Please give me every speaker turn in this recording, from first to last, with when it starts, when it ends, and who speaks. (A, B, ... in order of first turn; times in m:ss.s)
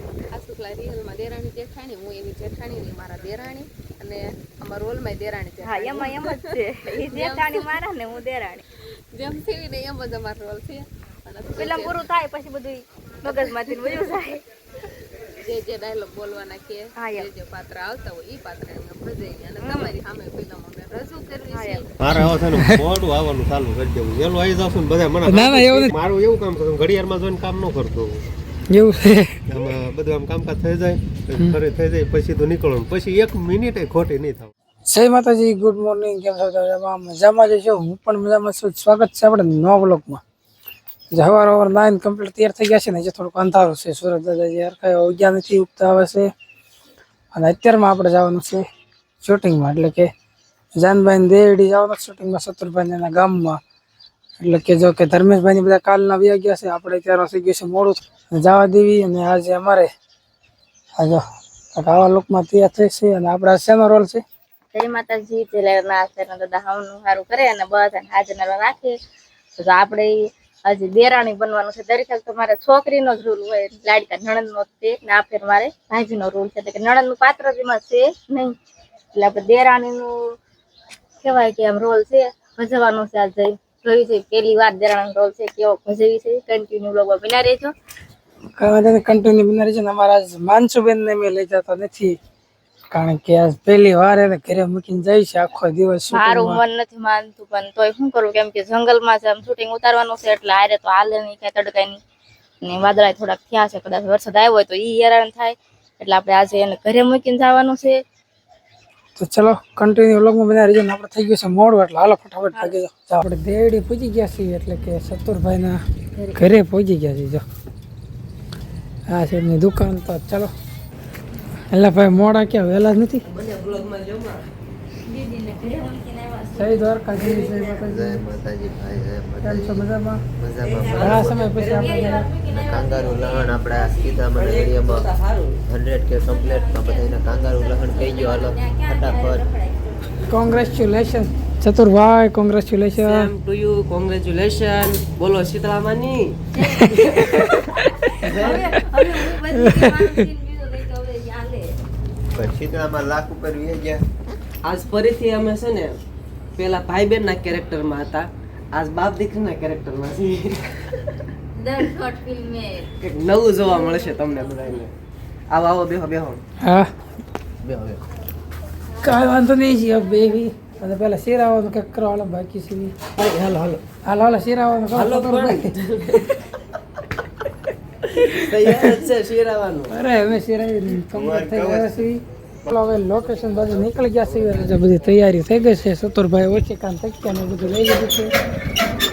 0:00.3-0:06.3 A
0:05.6-0:08.6 B
0:06.9-0:07.7 A
0:09.1-0:12.0 A
0:11.6-0:14.4 B
0:13.3-0:13.8 A
0:15.4-0:21.9 A
0:17.0-0:17.3 B
0:19.6-0:19.9 B
0:21.5-0:21.8 B
0:22.0-0:28.3 C
0:22.5-0:22.8 D
0:25.2-0:25.9 D
0:28.7-0:29.4 D
0:29.5-0:34.5 C
0:34.9-0:40.2 D
0:41.1-0:46.3 D
0:47.3-0:48.6 D
0:49.2-0:50.1 D
0:50.7-0:53.6 D
0:54.4-0:59.9 D
1:01.0-1:01.2 D
1:01.7-1:04.2 D
1:04.7-1:08.9 B
1:09.6-1:18.5 B
1:19.1-1:20.1 B
1:21.2-1:27.7 B
1:28.6-1:32.2 D
1:32.9-1:36.6 D
1:36.1-1:42.0 B
1:42.6-1:48.0 B
1:49.2-1:55.8 D
1:56.3-1:57.4 D
1:59.1-2:00.5 D
2:01.7-2:03.2 D
2:03.2-2:04.4 E
2:05.1-2:07.8 B
2:06.5-2:08.2 D
2:07.8-2:09.8 F
2:09.4-2:10.2 D
2:10.4-2:11.4 F
2:10.6-2:12.3 E
2:10.9-2:12.3 D
2:11.7-2:13.8 B
2:12.4-2:15.1 F
2:14.3-2:15.6 E
2:15.6-2:19.4 F
2:16.2-2:20.2 B
2:20.3-2:23.3 D
2:23.0-2:26.4 E
2:26.5-2:31.7 B
2:26.8-2:27.7 D
2:28.2-2:28.6 F
2:28.5-2:28.8 D
2:29.6-2:30.2 D
2:32.3-2:34.0 F
2:34.6-2:36.0 E
2:36.6-2:41.0 E
2:41.6-2:42.9 B
2:43.0-2:44.9 E
2:45.5-2:46.4 E
2:46.6-2:46.9 D
2:47.6-2:48.0 E
2:49.0-2:52.9 D
2:53.2-2:53.8 E
2:54.0-2:55.7 D
2:54.9-2:56.3 E
2:58.1-2:59.9 E
2:58.6-2:59.0 D
2:59.9-3:08.3 D
3:01.1-3:02.0 F